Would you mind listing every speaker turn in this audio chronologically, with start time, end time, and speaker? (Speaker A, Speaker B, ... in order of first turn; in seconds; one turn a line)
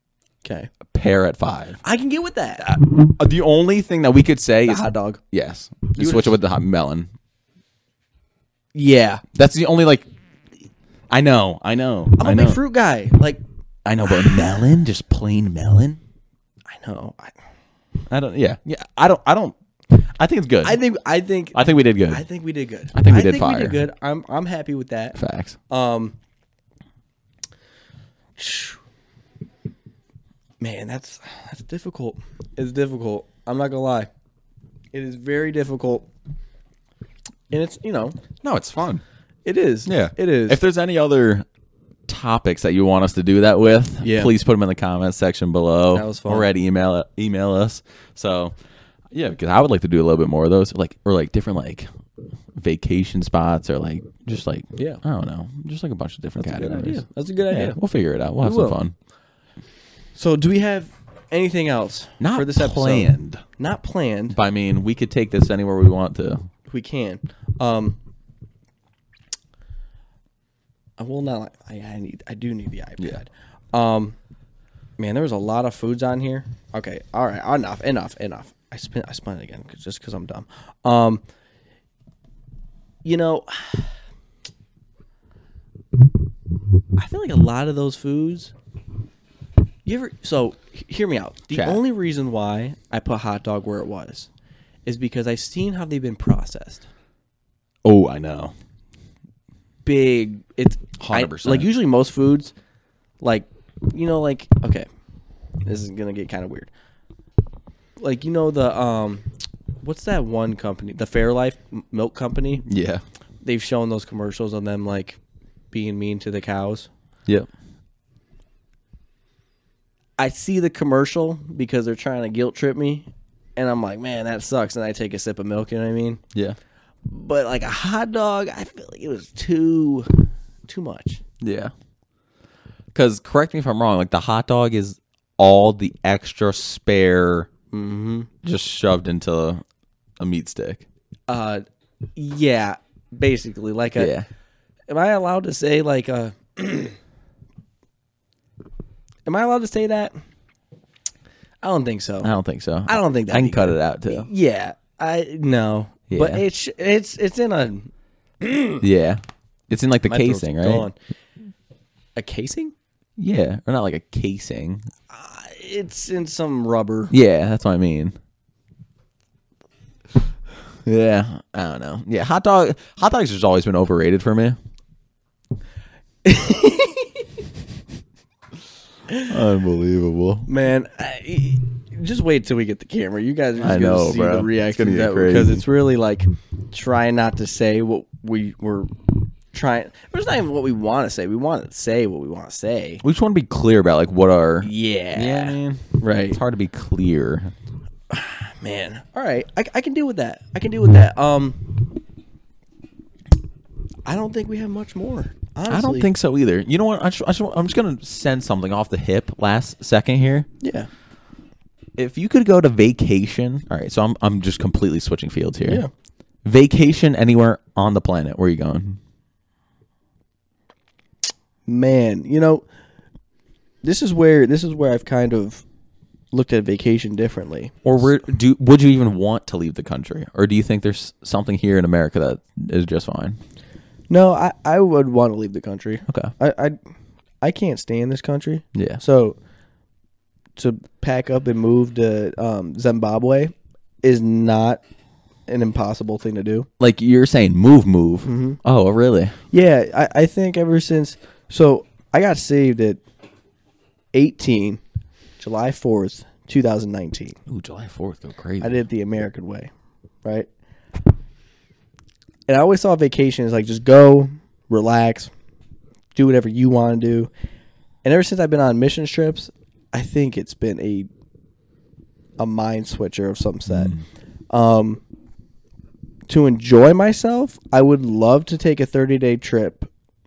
Speaker A: 0.4-0.7
Speaker B: 0.9-1.8
Speaker A: 1.8-2.7
Speaker B: 2.6-7.1
Speaker A: 4.7-5.2
Speaker A: 6.0-6.4
Speaker A: 8.7-9.2
Speaker B: 9.3-10.1
Speaker B: 11.1-12.6
Speaker A: 12.2-13.4
Speaker B: 13.8-16.0
Speaker A: 14.3-14.5
Speaker A: 16.7-17.3
Speaker B: 18.1-20.8
Speaker A: 20.6-25.2
Speaker B: 21.5-22.2
Speaker B: 22.9-23.8
Speaker B: 25.2-25.6
Speaker A: 25.7-26.1
Speaker A: 28.4-28.8
Speaker A: 30.6-34.1
Speaker A: 34.9-36.1
Speaker A: 37.5-38.2
Speaker B: 38.4-39.0
Speaker A: 39.5-40.6
Speaker B: 39.9-41.5
Speaker B: 42.1-48.5
Speaker A: 44.0-44.3
Speaker A: 45.9-46.5
Speaker B: 49.1-51.9
Speaker B: 52.5-58.9
Speaker A: 56.4-57.8
Speaker A: 58.4-58.8
Speaker A: 60.2-64.4
Speaker B: 62.2-63.4
Speaker B: 64.3-66.5
Speaker A: 66.7-68.0
Speaker A: 71.0-74.2
Speaker A: 75.0-81.2
Speaker A: 83.0-83.9
Speaker A: 87.0-88.5
Speaker A: 89.8-94.3
Speaker B: 91.5-91.8
Speaker A: 94.9-96.9
Speaker B: 97.8-98.5
Speaker A: 99.9-102.5
Speaker B: 101.0-101.7
Speaker A: 103.2-104.9
Speaker A: 105.7-106.7
Speaker A: 108.0-109.3
Speaker A: 109.8-112.7
Speaker B: 112.7-113.0
Speaker A: 113.4-115.2
Speaker A: 115.7-116.9
Speaker A: 120.2-126.2
Speaker A: 127.1-131.2
Speaker B: 131.4-131.7
Speaker B: 132.9-137.5
Speaker A: 137.7-138.3
Speaker B: 138.4-139.6
Speaker B: 140.2-140.8
Speaker A: 141.3-141.6
Speaker A: 142.2-144.1
Speaker B: 144.0-144.3
Speaker A: 144.9-147.0
Speaker A: 149.3-150.2
Speaker A: 151.6-152.3
Speaker B: 152.2-154.3
Speaker A: 152.9-158.8
Speaker B: 156.1-156.4
Speaker B: 158.8-160.9
Speaker A: 160.1-160.9
Speaker A: 162.2-162.7
Speaker B: 163.2-164.9
Speaker A: 165.1-167.1
Speaker B: 167.1-168.2
Speaker B: 170.8-174.6
Speaker A: 176.2-177.2
Speaker B: 179.3-180.5
Speaker A: 180.5-188.9
Speaker B: 183.6-185.6
Speaker A: 189.5-193.0
Speaker B: 193.0-197.5
Speaker A: 194.6-196.4
Speaker A: 198.1-201.8
Speaker A: 204.1-206.1
Speaker B: 205.7-210.5
Speaker A: 210.6-210.9
Speaker B: 212.0-215.8
Speaker B: 216.4-219.0
Speaker A: 221.7-222.7
Speaker A: 223.8-225.6
Speaker A: 226.3-227.8
Speaker B: 227.8-233.4
Speaker A: 234.1-236.8
Speaker B: 236.1-236.3
Speaker A: 237.4-239.4
Speaker B: 238.8-239.0
Speaker A: 240.6-243.5
Speaker A: 244.0-244.8
Speaker A: 245.5-246.7
Speaker B: 246.8-249.4
Speaker A: 248.2-248.6
Speaker A: 249.5-253.0
Speaker A: 254.1-254.8
Speaker A: 255.4-257.4
Speaker B: 257.5-258.8
Speaker A: 258.6-259.7
Speaker A: 260.2-260.5
Speaker A: 262.5-265.3
Speaker A: 266.1-267.3
Speaker A: 268.1-271.1
Speaker A: 272.4-273.9
Speaker B: 273.7-274.0
Speaker A: 274.5-275.0
Speaker A: 276.3-279.9